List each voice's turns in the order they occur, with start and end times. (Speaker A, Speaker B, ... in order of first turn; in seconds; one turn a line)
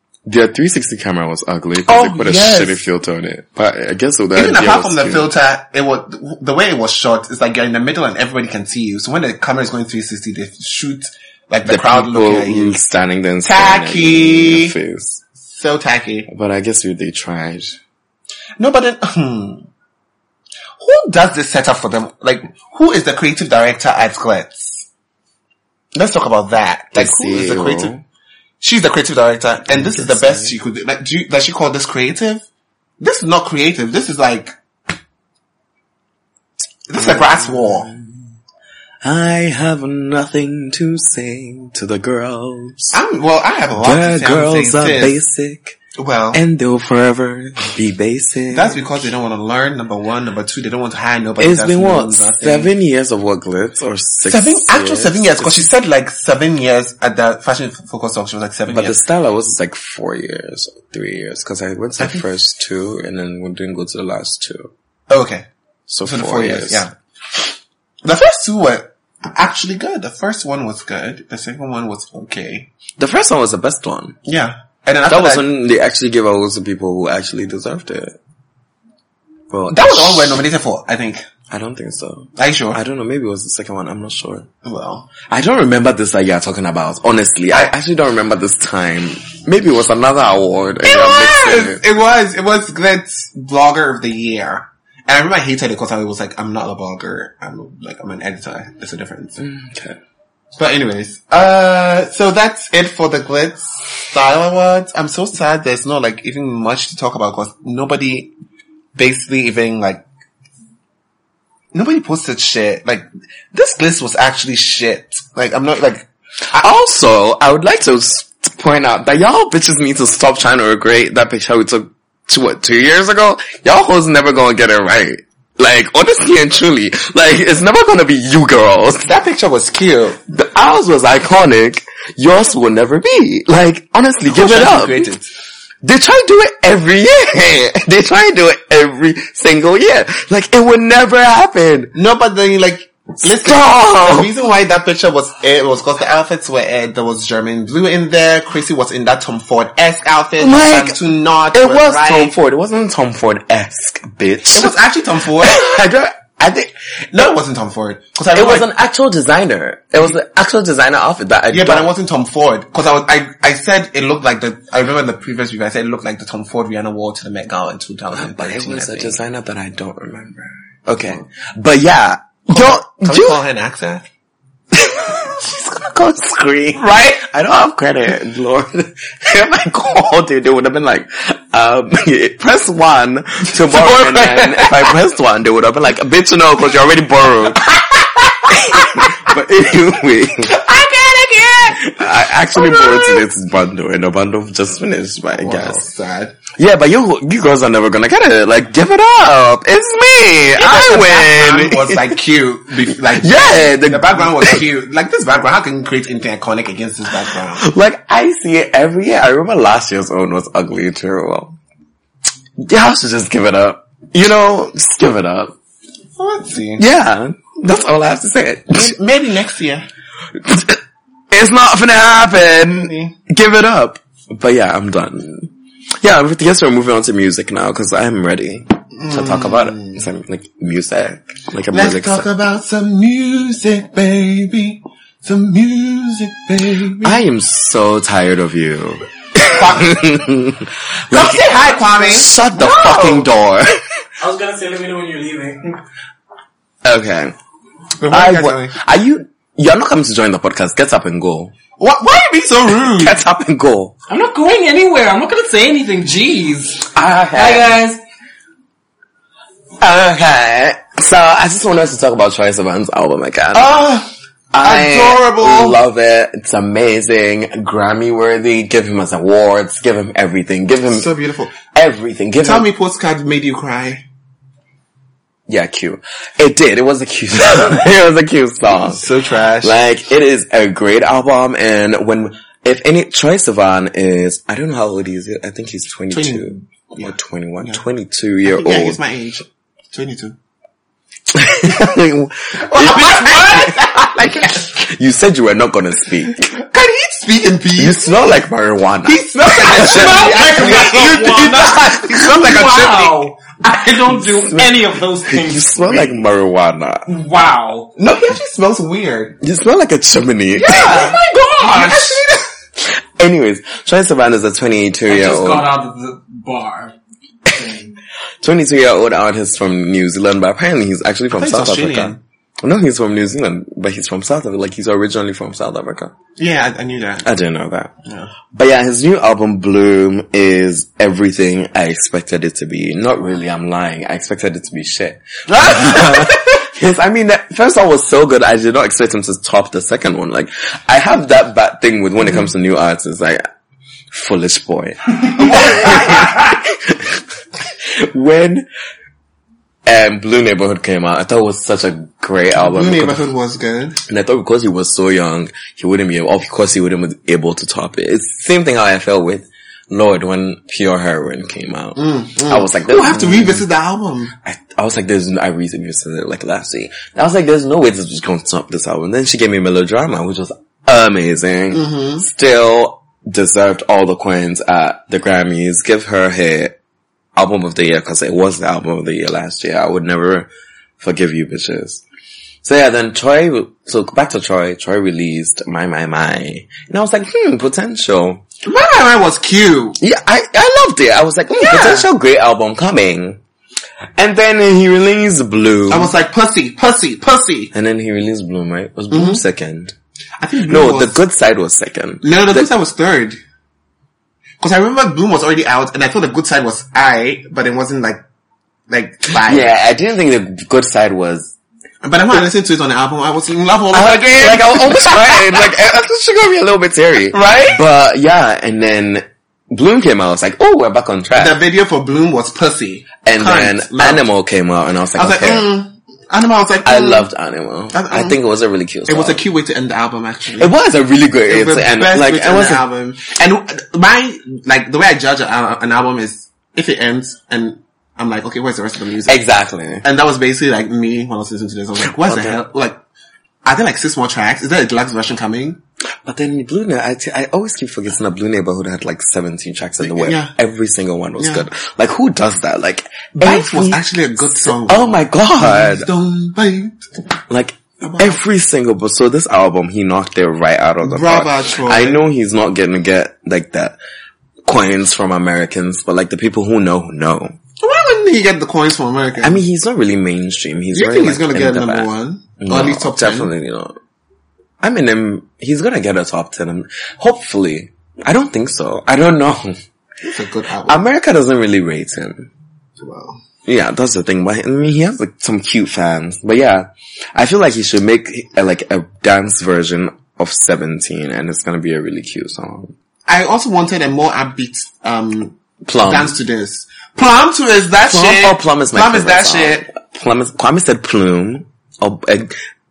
Speaker A: 0.2-5.3
Speaker B: 1.9-2.8
Speaker B: 4.3-12.8
Speaker A: 11.7-15.2
Speaker B: 13.4-14.7
Speaker B: 15.4-16.3
Speaker A: 16.3-17.8
Speaker B: 18.6-19.7
Speaker B: 20.8-24.8
Speaker B: 25.9-27.9
Speaker A: 26.9-28.0
Speaker B: 28.6-32.4
Speaker A: 29.7-30.6
Speaker B: 33.0-34.5
Speaker B: 36.9-37.9
Speaker A: 37.0-38.3
Speaker A: 39.0-42.9
Speaker B: 42.9-45.2
Speaker A: 43.8-45.8
Speaker B: 46.0-46.4
Speaker A: 46.3-49.1
Speaker B: 48.5-52.7
Speaker A: 51.4-55.7
Speaker B: 54.2-59.0
Speaker A: 58.7-64.7
Speaker B: 62.0-62.2
Speaker B: 65.1-65.5
Speaker A: 65.9-66.8
Speaker B: 66.0-67.5
Speaker B: 68.0-72.7
Speaker A: 73.0-74.2
Speaker B: 74.2-75.5
Speaker A: 75.1-78.2
Speaker A: 79.5-80.4
Speaker B: 79.7-81.2
Speaker A: 81.5-84.5
Speaker B: 82.3-82.8
Speaker B: 84.6-85.1
Speaker A: 85.3-91.8
Speaker B: 90.8-99.4
Speaker A: 99.4-100.0
Speaker B: 100.6-108.3
Speaker B: 109.0-110.0
Speaker B: 111.7-116.6
Speaker A: 116.5-129.1
Speaker B: 129.0-130.2
Speaker A: 130.3-135.1
Speaker B: 134.2-135.3
Speaker A: 135.8-141.9
Speaker B: 141.9-152.3
Speaker A: 143.2-144.3
Speaker A: 150.4-151.0
Speaker A: 151.5-154.7
Speaker B: 154.5-155.6
Speaker A: 155.4-157.3
Speaker B: 157.1-158.7
Speaker A: 158.3-161.9
Speaker B: 161.5-169.2
Speaker A: 168.1-173.4
Speaker B: 172.5-174.0
Speaker A: 174.7-187.7
Speaker B: 176.8-177.2
Speaker B: 183.6-184.9
Speaker A: 188.5-190.5
Speaker B: 188.7-189.0
Speaker B: 190.4-191.9
Speaker A: 191.8-195.8
Speaker B: 192.5-193.2
Speaker B: 195.3-196.4
Speaker A: 196.6-202.2
Speaker B: 200.6-207.6
Speaker A: 202.9-204.6
Speaker A: 207.6-211.6
Speaker A: 212.6-215.5
Speaker B: 216.2-216.8
Speaker A: 216.8-218.9
Speaker B: 218.7-219.9
Speaker A: 220.3-220.8
Speaker A: 221.3-232.3
Speaker B: 222.7-223.1
Speaker B: 228.9-230.0
Speaker B: 231.7-237.2
Speaker A: 237.0-243.8
Speaker B: 239.4-240.0
Speaker B: 241.1-243.2
Speaker C: 244.2-245.8
Speaker A: 246.8-247.3
Speaker B: 248.0-248.7
Speaker A: 248.1-251.5
Speaker B: 251.8-253.2
Speaker A: 252.7-253.9
Speaker C: 254.1-258.0
Speaker A: 256.9-257.8
Speaker A: 259.8-263.8
Speaker B: 263.5-265.8
Speaker A: 264.5-271.1
Speaker B: 270.9-271.5
Speaker A: 271.7-272.7
Speaker B: 272.4-274.0
Speaker A: 275.5-279.1
Speaker B: 278.7-279.8
Speaker A: 279.6-289.0
Speaker B: 286.1-287.8
Speaker B: 288.4-290.4
Speaker A: 291.3-296.5
Speaker B: 292.6-294.7
Speaker B: 296.3-298.2
Speaker A: 297.8-300.9
Speaker B: 299.0-303.2
Speaker C: 299.6-306.2
Speaker A: 304.1-307.1
Speaker C: 307.1-307.9
Speaker B: 307.9-309.4
Speaker A: 309.4-311.1
Speaker B: 310.6-312.4
Speaker C: 310.6-312.2
Speaker A: 312.8-315.7
Speaker C: 315.1-316.9
Speaker C: 317.5-317.9
Speaker A: 318.4-326.1
Speaker B: 321.3-322.2
Speaker B: 326.4-327.3
Speaker A: 327.2-327.9
Speaker B: 328.0-328.3
Speaker A: 328.5-343.4
Speaker B: 335.5-336.4
Speaker A: 344.1-348.6
Speaker C: 345.7-346.3
Speaker A: 349.9-353.2
Speaker B: 352.5-354.0
Speaker A: 354.1-363.6
Speaker B: 361.9-364.3
Speaker A: 364.4-376.8
Speaker B: 371.7-372.2
Speaker A: 377.4-382.0
Speaker A: 382.6-388.4
Speaker B: 388.6-390.0
Speaker A: 390.0-393.4
Speaker B: 391.5-392.1
Speaker A: 394.2-396.1
Speaker B: 395.9-397.7
Speaker A: 397.7-399.9
Speaker B: 399.1-399.4
Speaker B: 400.4-401.2
Speaker A: 400.7-402.7
Speaker B: 402.2-403.4
Speaker B: 404.6-408.2
Speaker B: 408.9-409.7
Speaker A: 409.4-411.5
Speaker B: 412.0-415.7
Speaker A: 413.9-421.6
Speaker B: 417.3-417.8
Speaker B: 421.3-424.2
Speaker A: 423.2-425.7
Speaker B: 425.1-427.3
Speaker A: 426.8-429.4
Speaker B: 427.9-428.4
Speaker B: 429.1-430.7
Speaker A: 430.6-432.8
Speaker B: 431.5-439.4
Speaker A: 439.2-440.0
Speaker B: 440.0-443.0
Speaker A: 442.2-442.6
Speaker B: 443.6-445.8
Speaker A: 446.2-454.0
Speaker B: 450.0-450.5
Speaker B: 451.4-451.6
Speaker B: 453.4-457.1
Speaker A: 454.6-456.1
Speaker A: 457.5-464.0
Speaker B: 458.0-458.4
Speaker B: 461.0-462.2
Speaker A: 464.6-467.6
Speaker B: 467.8-469.6
Speaker A: 469.4-473.9
Speaker B: 470.9-473.5
Speaker A: 474.8-479.8
Speaker B: 480.2-481.0
Speaker A: 480.9-482.5
Speaker B: 483.0-483.4
Speaker A: 483.6-492.9
Speaker B: 493.3-499.9
Speaker A: 495.8-496.3
Speaker A: 498.0-502.6